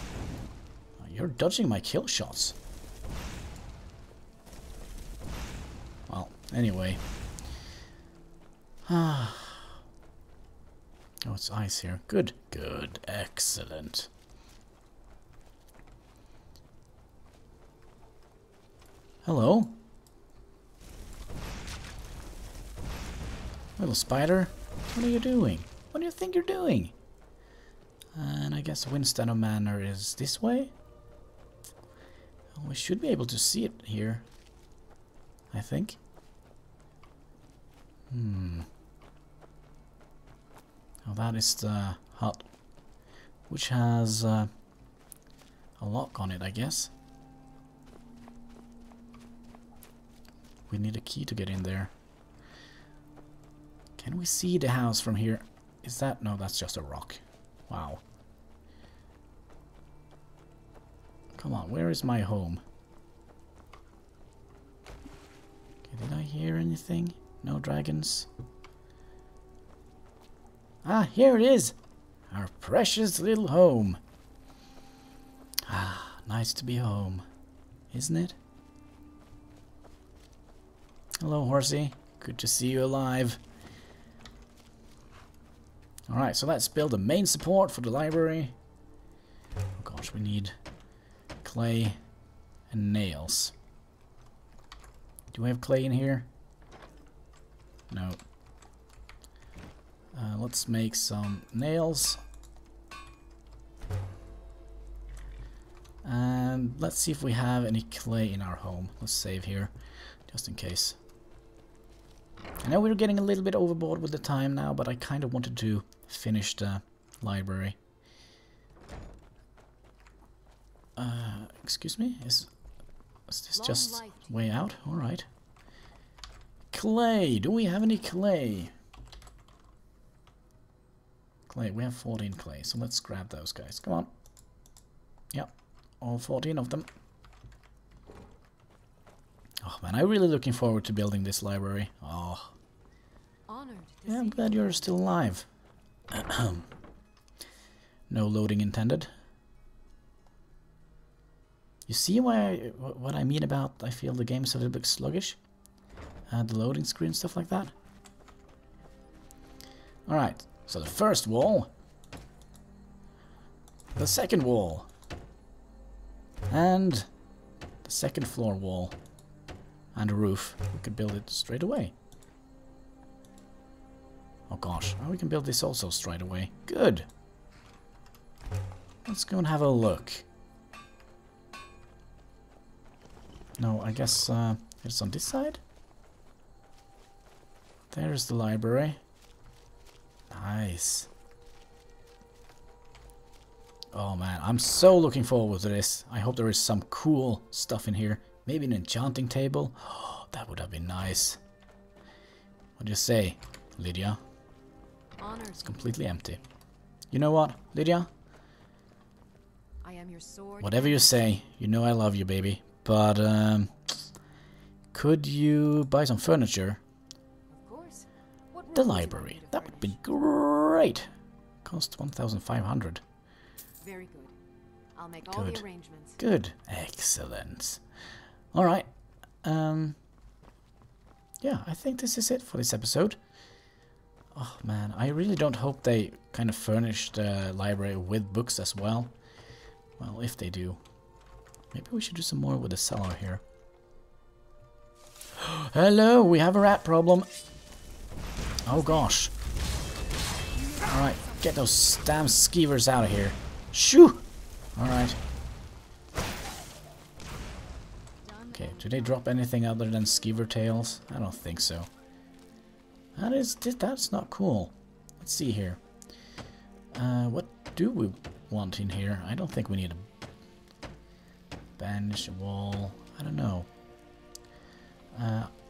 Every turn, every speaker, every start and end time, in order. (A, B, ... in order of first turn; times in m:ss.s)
0:01.0-0:02.6 A
0:06.1-0:07.0 A
0:08.9-0:09.7 A
0:11.2-0:14.1 A
0:19.2-0:19.8 A
0:23.8-0:26.9 A
0:28.2-0:30.7 A
0:32.5-0:34.3 A
0:35.5-0:36.0 A
0:38.1-0:38.7 A
0:41.0-0:42.5 A
0:43.5-0:44.5 A
0:45.8-0:46.9 A
0:50.7-0:51.9 A
0:54.0-0:58.0 A
1:01.4-1:02.6 A
1:05.9-1:08.3 A
1:10.8-1:11.8 A
1:12.3-1:14.0 A
1:15.7-1:17.2 A
1:17.9-1:18.4 A
1:21.2-1:23.4 A
1:26.1-1:28.6 A
1:29.8-1:30.6 A
1:31.4-1:32.0 A
1:32.7-1:33.5 A
1:35.3-1:36.3 A
1:37.9-1:38.2 A
1:40.1-1:42.2 A
1:46.0-1:49.7 A
1:50.3-1:51.0 A
1:52.6-1:57.8 A
2:01.0-2:02.5 A
2:03.3-2:05.3 A
2:03.5-2:04.7 B
2:06.7-2:08.7 A
2:11.5-2:14.1 A
2:15.3-2:16.9 A
2:19.6-2:22.5 A
2:23.5-2:25.0 B
2:24.1-2:25.5 A
2:26.1-2:26.7 A
2:28.1-2:29.1 A
2:31.9-2:35.4 A
2:36.3-2:37.7 A
2:40.1-2:41.7 A
2:44.0-2:44.9 A
2:46.5-2:47.1 A
2:47.8-2:49.0 A
2:50.0-2:51.9 A
2:54.5-2:57.1 A
2:59.0-3:00.2 A
3:03.6-3:05.6 A
3:07.9-3:09.0 A
3:10.3-3:11.1 A
3:13.9-3:21.4 A
3:22.8-3:24.2 A
3:25.2-3:26.4 B
3:25.6-3:26.4 A
3:27.1-3:28.1 A
3:29.8-3:31.5 B
3:30.6-3:33.8 A
3:34.9-3:36.8 A
3:37.5-3:40.0 B
3:38.7-3:41.1 A
3:41.6-3:43.0 A
3:43.8-3:44.4 B
3:45.0-3:46.2 B
3:45.3-3:45.6 A
3:46.2-3:47.8 A
3:48.5-3:48.9 A
3:49.4-3:50.0 A
3:51.4-3:53.2 A
3:54.3-3:59.1 A
4:00.0-4:00.8 A
4:01.7-4:03.4 A
4:05.4-4:07.3 A
4:08.6-4:09.3 A
4:08.7-4:09.1 B
4:10.5-4:12.0 B
4:10.8-4:15.2 A
4:18.2-4:19.3 B
4:18.5-4:21.9 A
4:23.2-4:25.8 A
4:26.9-4:30.1 A
4:31.8-4:33.7 A
4:35.1-4:35.5 A